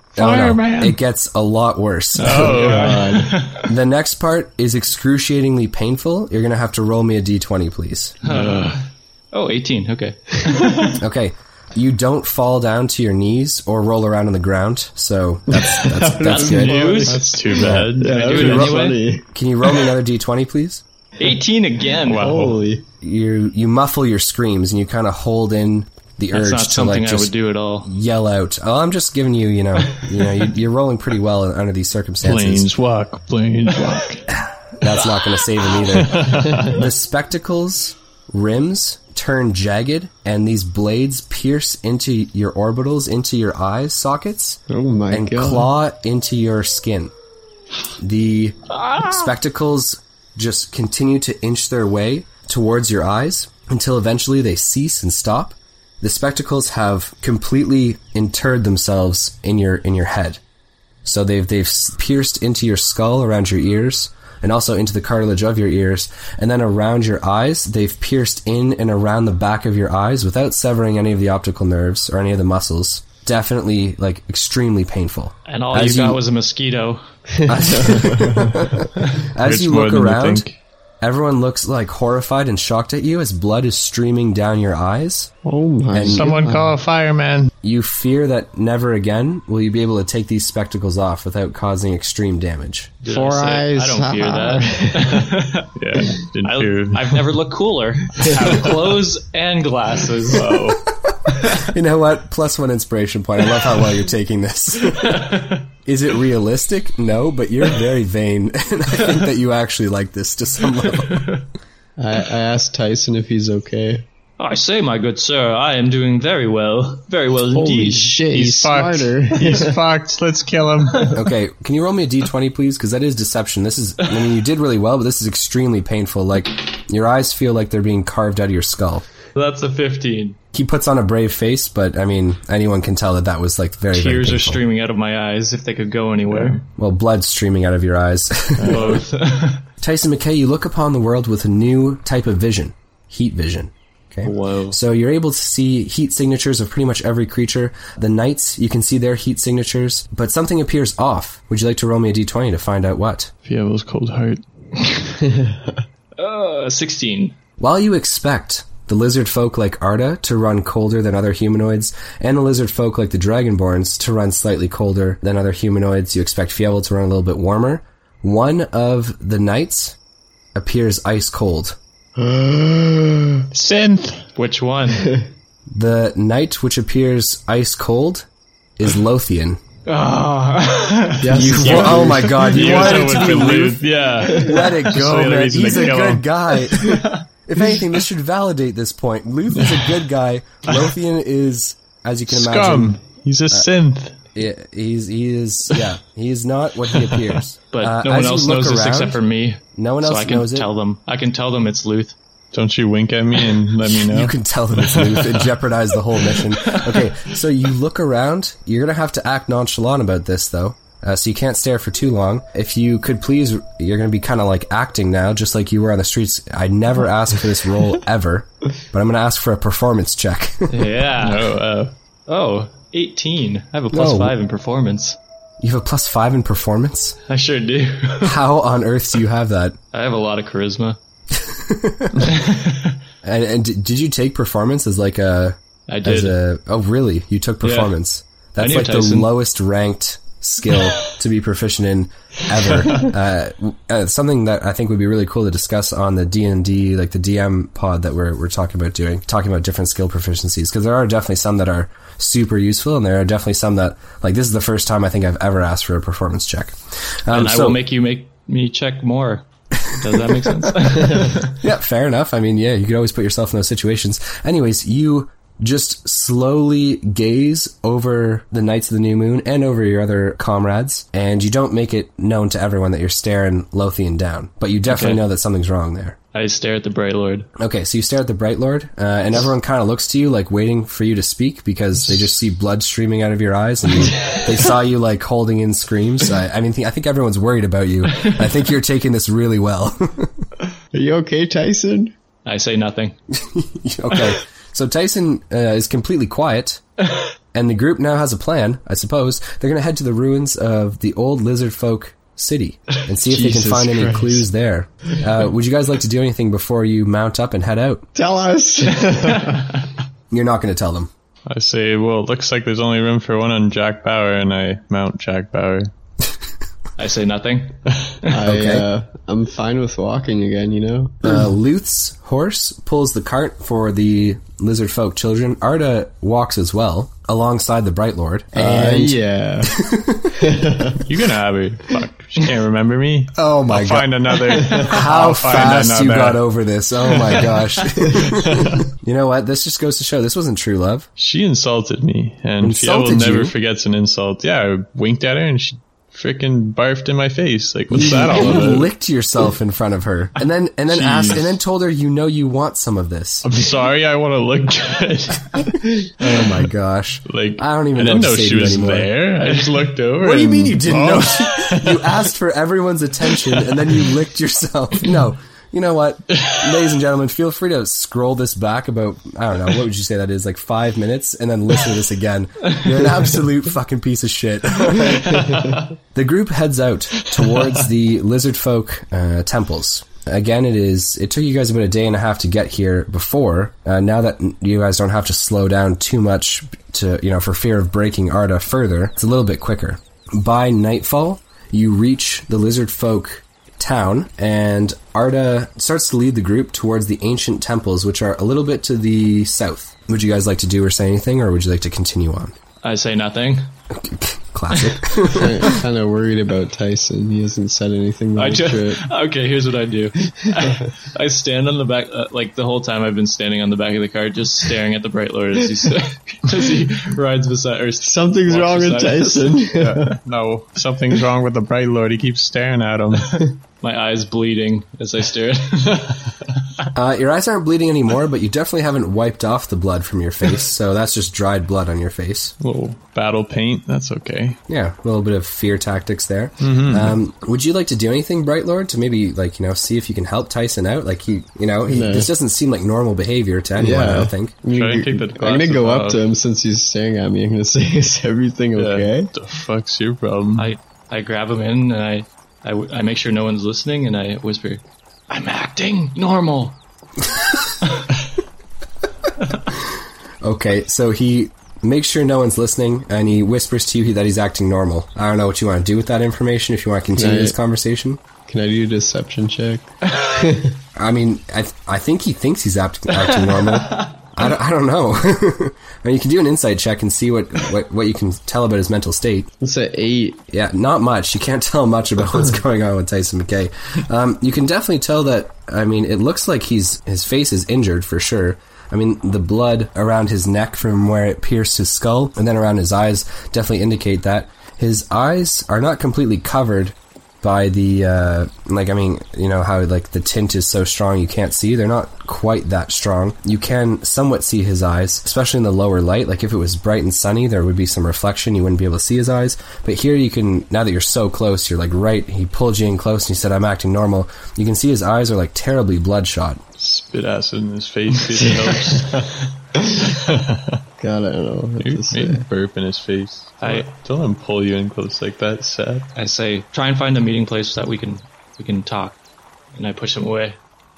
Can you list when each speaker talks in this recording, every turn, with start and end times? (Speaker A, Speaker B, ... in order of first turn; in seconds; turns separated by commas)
Speaker A: 0.1-2.6, Speaker B: 0.3-0.8, Speaker C: 0.4-0.9, Speaker B: 2.2-3.7, Speaker C: 2.2-3.3, Speaker D: 2.4-3.4, Speaker A: 3.6-8.2, Speaker B: 8.2-11.0, Speaker C: 8.2-8.8, Speaker A: 11.0-17.0, Speaker D: 15.5-19.2, Speaker B: 16.1-19.0, Speaker C: 16.9-18.7, Speaker A: 19.3-20.8, Speaker B: 21.2-22.4, Speaker C: 22.0-22.6, Speaker D: 22.1-22.8, Speaker A: 23.0-32.7, Speaker B: 26.3-27.9, Speaker C: 32.2-34.3, Speaker A: 34.3-47.1, Speaker C: 35.9-36.8, Speaker D: 44.7-45.7, Speaker A: 48.0-60.4, Speaker B: 48.8-49.2, Speaker A: 61.0-76.2, Speaker B: 75.5-77.0, Speaker D: 77.4-78.6, Speaker A: 77.5-80.5, Speaker C: 79.4-80.6, Speaker A: 81.0-85.3, Speaker D: 85.4-86.7, Speaker A: 85.9-86.3, Speaker C: 86.1-87.5, Speaker A: 87.6-92.9, Speaker B: 93.0-95.7, Speaker D: 93.1-95.3, Speaker C: 95.8-97.2, Speaker B: 96.4-100.5, Speaker C: 98.3-99.0, Speaker C: 100.3-100.8, Speaker A: 100.9-111.3, Speaker B: 104.9-105.6, Speaker B: 110.9-111.4, Speaker D: 112.0-114.0, Speaker B: 114.4-118.2, Speaker D: 117.5-119.8, Speaker C: 118.3-121.1, Speaker A: 121.1-129.0, Speaker B: 129.3-130.4, Speaker A: 130.5-134.6, Speaker B: 133.9-136.6, Speaker C: 136.3-136.6, Speaker A: 136.8-139.0, Speaker C: 138.6-139.0, Speaker B: 138.7-139.6, Speaker A: 139.8-153.3, Speaker B: 144.2-144.8, Speaker C: 153.4-154.4, Speaker D: 155.2-155.7, Speaker B: 156.2-157.3, Speaker A: 157.6-169.9, Speaker A: 170.5-171.8, Speaker D: 172.2-173.4, Speaker C: 173.5-174.3, Speaker B: 174.3-175.1, Speaker A: 175.7-178.3, Speaker A: 178.8-179.6, Speaker B: 179.8-183.5, Speaker D: 181.2-182.4, Speaker A: 181.2-192.9, Speaker C: 181.6-186.2, Speaker B: 186.8-187.2, Speaker C: 189.5-189.8, Speaker C: 192.3-194.2, Speaker A: 194.3-199.2, Speaker B: 197.7-202.1, Speaker A: 199.8-200.7, Speaker C: 202.5-205.5, Speaker A: 204.1-220.9, Speaker B: 206.5-207.1, Speaker B: 220.7-221.5, Speaker C: 221.2-221.9, Speaker B: 222.3-225.2, Speaker A: 223.9-224.3, Speaker A: 225.6-227.2, Speaker B: 227.3-228.4, Speaker A: 228.2-229.8, Speaker B: 229.9-231.0, Speaker A: 231.3-232.3, Speaker B: 232.2-233.0, Speaker A: 233.2-257.8, Speaker B: 235.9-236.3, Speaker B: 237.6-237.9, Speaker B: 238.6-239.3, Speaker B: 257.3-261.6, Speaker A: 259.8-260.7, Speaker A: 261.6-276.2, Speaker B: 274.9-275.2, Speaker B: 276.3-277.5, Speaker A: 277.6-290.3, Speaker D: 290.9-292.1, Speaker B: 292.4-293.1, Speaker A: 293.3-296.8, Speaker A: 297.5-308.1, Speaker D: 303.2-304.5, Speaker D: 308.1-309.8, Speaker A: 310.3-311.1, Speaker C: 311.5-315.9, Speaker B: 317.0-318.3, Speaker D: 318.3-321.4, Speaker A: 318.4-318.9, Speaker A: 321.2-330.5, Speaker D: 328.6-329.8, Speaker D: 330.3-331.0, Speaker C: 331.0-336.4, Speaker A: 333.3-341.1, Speaker C: 337.1-337.5, Speaker C: 338.1-338.9, Speaker C: 341.2-348.9, Speaker A: 342.6-343.5, Speaker A: 347.9-353.4, Speaker D: 348.0-348.6, Speaker C: 350.9-351.6, Speaker C: 353.4-356.5, Speaker A: 356.2-359.1, Speaker C: 357.2-362.1, Speaker A: 360.2-375.6, Speaker A: 376.1-402.5, Speaker B: 402.8-403.7, Speaker A: 403.9-405.7, Speaker D: 405.3-409.0, Speaker B: 408.4-419.6, Speaker D: 418.0-420.1, Speaker C: 419.7-423.4, Speaker B: 423.8-426.2, Speaker A: 426.9-432.5, Speaker C: 432.6-434.6, Speaker A: 434.7-444.5, Speaker C: 436.6-437.2, Speaker D: 441.9-442.3, Speaker D: 443.8-449.3, Speaker C: 444.7-446.2, Speaker C: 448.8-450.7, Speaker B: 450.6-456.8, Speaker A: 460.4-468.2, Speaker D: 467.1-467.6, Speaker D: 468.5-470.8, Speaker A: 470.9-479.5, Speaker B: 473.1-474.1, Speaker D: 479.6-480.4, Speaker A: 480.5-516.6, Speaker C: 516.8-519.5, Speaker C: 520.0-520.8, Speaker D: 521.0-522.4, Speaker C: 521.8-526.1, Speaker B: 523.6-523.9, Speaker B: 526.1-529.2, Speaker B: 529.7-530.6